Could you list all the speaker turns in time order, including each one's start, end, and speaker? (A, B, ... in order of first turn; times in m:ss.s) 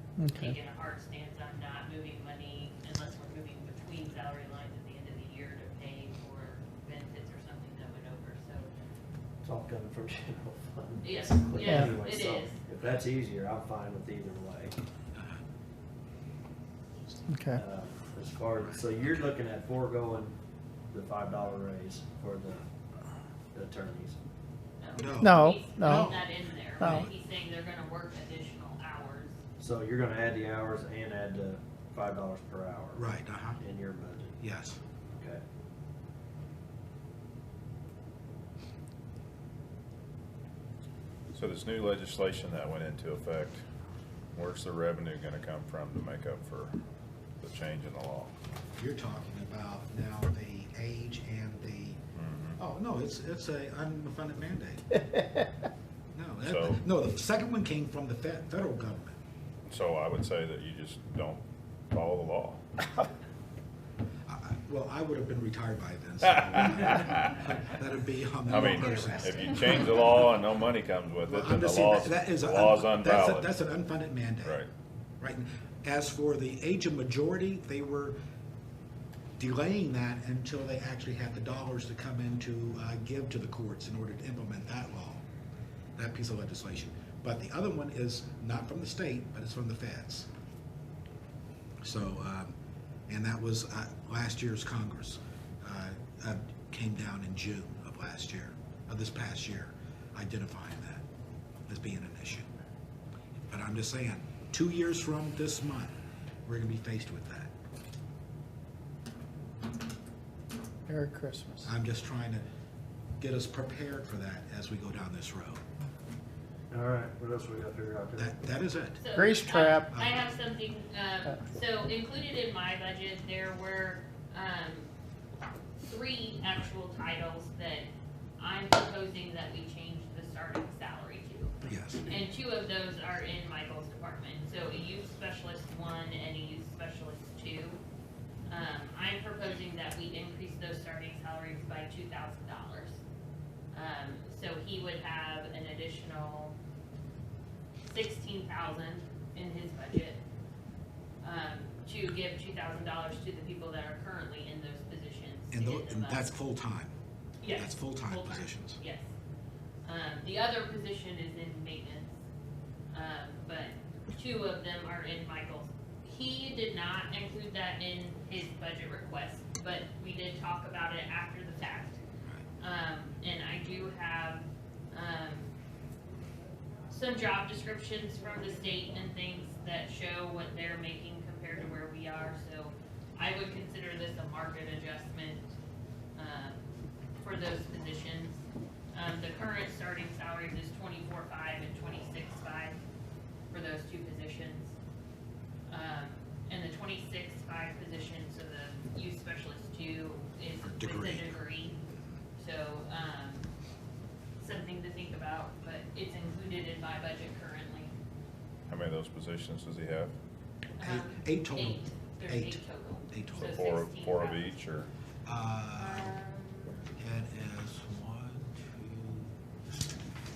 0:00.2-0:00.5 A
0:00.3-0:08.7 B
0:09.4-0:14.8 C
0:11.0-0:12.6 B
0:11.6-0:11.9 A
0:17.3-0:17.6 A
0:17.5-0:20.3 C
0:20.9-0:22.6 C
0:23.5-0:24.2 C
0:24.8-0:29.3 B
0:25.0-0:26.3 D
0:25.2-0:26.1 A
0:26.8-0:27.0 A
0:29.6-0:33.0 C
0:32.9-0:33.6 D
0:33.6-0:34.3 C
0:34.4-0:34.8 D
0:35.1-0:35.4 C
0:41.3-0:43.6 E
0:44.3-0:46.8 E
0:47.4-0:48.3 E
0:48.8-0:52.0 D
0:52.1-0:52.6 E
0:52.6-0:54.9 D
0:56.1-0:59.2 D
0:56.4-0:56.8 E
0:59.6-1:02.6 E
1:04.3-1:09.9 D
1:06.4-1:07.4 E
1:08.4-1:13.5 E
1:11.2-1:14.6 D
1:15.2-1:18.2 D
1:19.4-1:25.2 D
1:26.0-1:30.3 D
1:31.8-1:32.5 D
1:33.1-1:41.0 D
1:41.7-1:42.5 D
1:43.4-1:47.5 D
1:50.9-1:51.7 A
1:51.6-1:52.4 D
1:53.2-1:55.6 D
1:56.7-1:58.4 C
1:58.2-1:59.0 D
1:59.0-2:04.9 B
1:59.2-1:59.9 A
2:05.8-2:17.8 B
2:11.6-2:12.2 D
2:18.5-2:23.0 B
2:23.7-2:26.5 B
2:27.8-2:30.2 B
2:31.2-2:36.3 B
2:35.5-2:36.9 D
2:37.4-2:39.1 B
2:37.5-2:38.8 D
2:39.8-2:42.2 B
2:42.9-2:52.0 B
2:52.6-2:55.5 B
2:56.9-3:05.5 B
3:06.2-3:06.6 B
3:07.2-3:12.8 B
3:13.5-3:14.7 B
3:15.7-3:21.8 B
3:20.6-3:21.4 D
3:22.4-3:23.5 B
3:24.4-3:27.9 B
3:28.7-3:30.1 E
3:30.8-3:34.6 B
3:30.8-3:33.6 D
3:33.3-3:34.9 E
3:35.2-3:36.2 D
3:35.8-3:36.8 B
3:37.0-3:39.3 D